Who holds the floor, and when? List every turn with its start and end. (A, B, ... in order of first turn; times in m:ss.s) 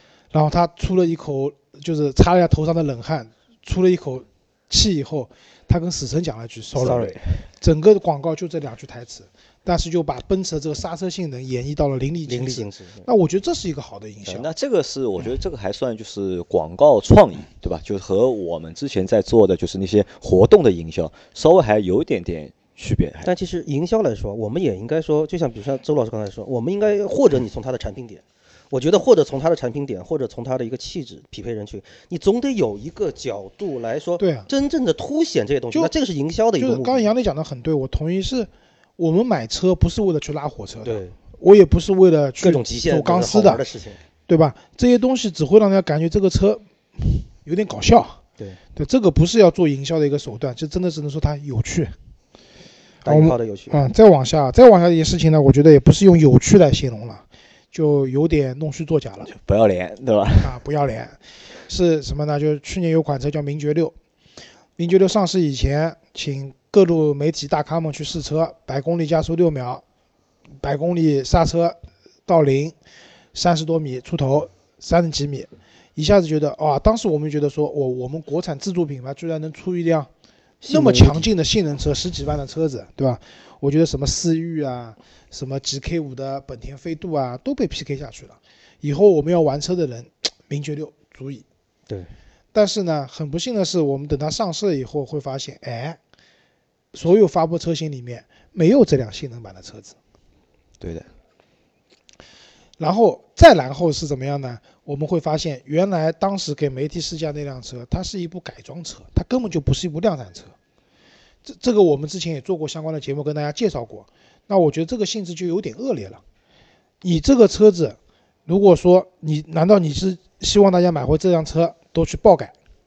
0:00.3-0:07.0 A
0:06.8-0:07.2 B
0:06.8-0:07.4 C
0:07.6-0:14.5 A
0:12.3-0:13.1 B
0:14.3-0:23.3 C
0:23.2-0:37.1 B
0:34.2-0:34.5 A
0:36.6-0:43.6 A
0:40.8-0:41.1 B
0:42.4-0:44.0 B
0:44.3-0:48.2 A
0:48.8-0:51.9 A
0:53.0-0:53.8 B
0:53.0-0:59.3 A
0:59.3-1:00.5 C
1:00.4-1:03.9 A
1:04.8-1:09.8 A
1:10.6-1:12.7 A
1:13.3-1:20.1 A
1:20.6-1:21.3 B
1:20.7-1:31.4 A
1:32.5-1:36.0 A
1:36.9-1:40.0 A
1:40.8-1:41.0 C
1:42.8-1:50.5 A
1:51.4-1:56.2 A
1:57.0-2:02.5 A